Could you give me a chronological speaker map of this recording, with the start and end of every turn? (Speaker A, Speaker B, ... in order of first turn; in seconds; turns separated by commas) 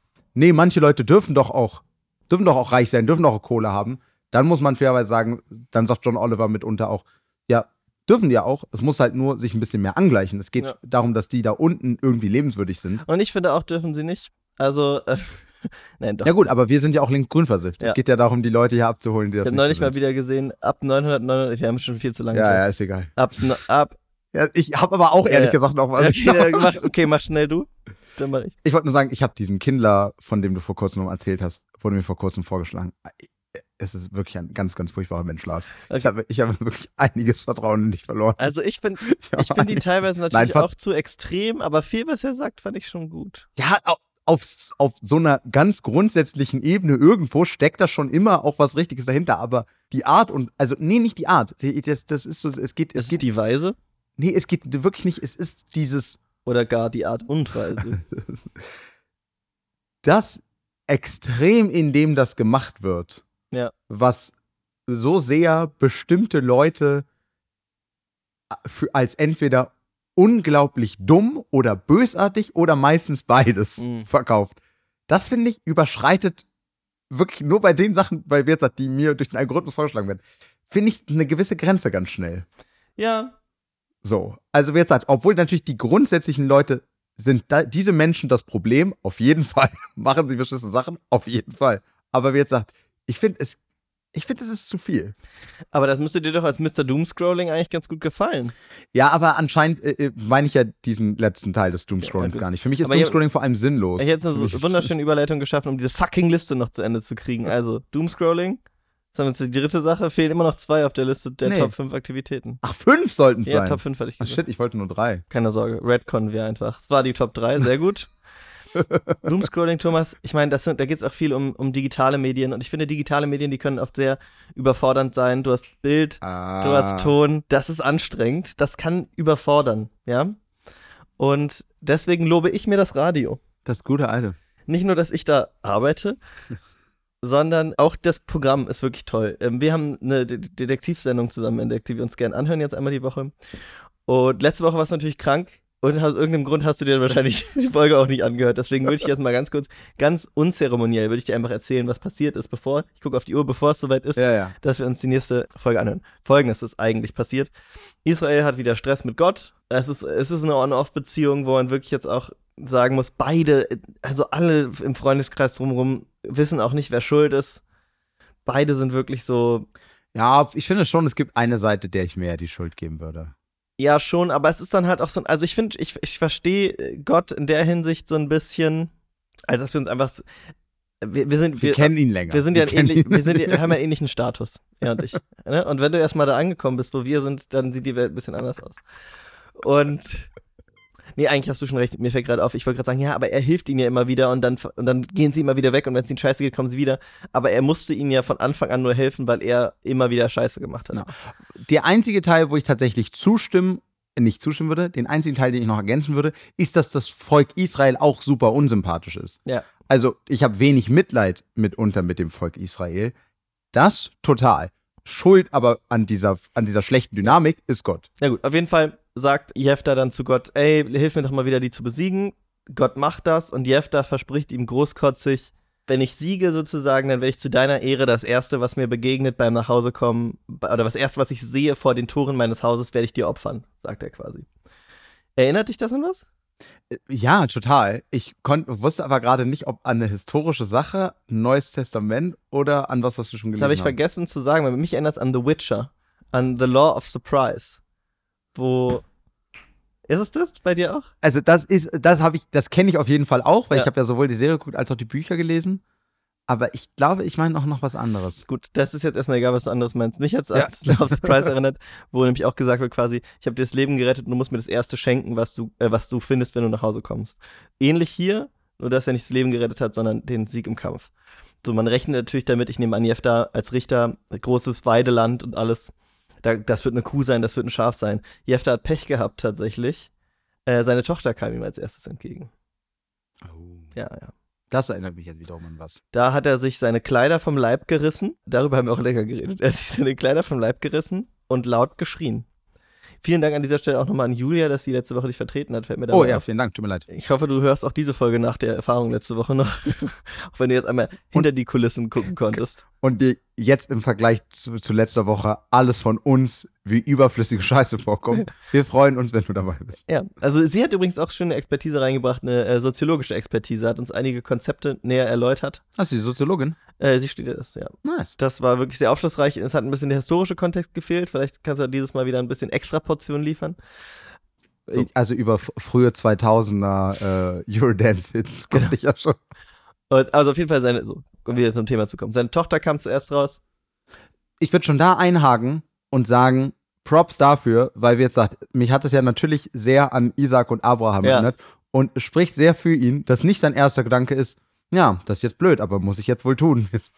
Speaker A: 0.3-13.0, Speaker B: 13.1-16.3, Speaker A: 16.2-19.9, Speaker B: 19.4-22.6, Speaker A: 22.3-23.1, Speaker B: 23.2-24.0, Speaker A: 24.3-26.9, Speaker B: 25.2-28.6, Speaker A: 28.6-38.5, Speaker B: 38.4-43.5, Speaker A: 39.0-40.7, Speaker A: 43.6-53.2, Speaker B: 53.0-53.8, Speaker A: 54.2-56.2, Speaker B: 56.5-58.0, Speaker A: 57.8-58.6, Speaker A: 60.0-63.2, Speaker A: 63.9-64.3, Speaker A: 64.9-67.1, Speaker A: 68.5-74.6, Speaker B: 73.8-74.1, Speaker A: 75.1-76.5, Speaker A: 77.1-82.5, Speaker B: 83.0-83.3, Speaker A: 84.0-93.6, Speaker A: 94.1-95.1, Speaker B: 95.7-98.5, Speaker A: 98.9-104.9, Speaker B: 102.0-103.2, Speaker B: 104.0-108.6, Speaker B: 109.1-112.6, Speaker A: 111.4-111.7, Speaker A: 112.6-115.2, Speaker B: 113.5-114.4, Speaker B: 115.3-118.1, Speaker A: 118.8-119.2, Speaker B: 119.2-130.4, Speaker A: 126.2-127.1, Speaker B: 131.2-133.4, Speaker A: 133.7-134.4, Speaker B: 134.7-136.2, Speaker B: 137.2-143.3, Speaker B: 144.1-157.5, Speaker A: 154.2-154.5, Speaker B: 158.1-167.6, Speaker B: 168.4-169.7, Speaker A: 170.1-173.3, Speaker B: 173.8-178.9, Speaker B: 179.5-180.2, Speaker B: 181.0-188.8, Speaker A: 181.6-183.6, Speaker B: 189.6-190.3, Speaker B: 191.2-201.1, Speaker A: 200.9-213.1, Speaker A: 213.7-218.1, Speaker B: 218.2-234.5, Speaker B: 235.4-236.2, Speaker A: 236.9-244.0, Speaker B: 243.6-247.8, Speaker B: 248.6-249.0, Speaker B: 250.1-251.1, Speaker A: 251.2-255.8, Speaker A: 256.5-258.4, Speaker B: 258.5-271.1, Speaker A: 260.6-261.5, Speaker B: 271.6-275.9, Speaker B: 276.4-280.1, Speaker B: 280.7-282.5, Speaker A: 283.4-283.9, Speaker B: 283.9-284.3, Speaker A: 284.7-286.0, Speaker B: 286.1-292.5, Speaker B: 293.2-296.4, Speaker A: 296.1-297.1, Speaker B: 297.1-302.8, Speaker A: 303.0-310.0, Speaker B: 310.1-315.8, Speaker A: 316.0-316.8, Speaker B: 317.0-323.8, Speaker A: 318.0-318.3, Speaker A: 324.9-329.4, Speaker B: 330.1-333.6, Speaker A: 334.6-347.0, Speaker B: 341.2-341.5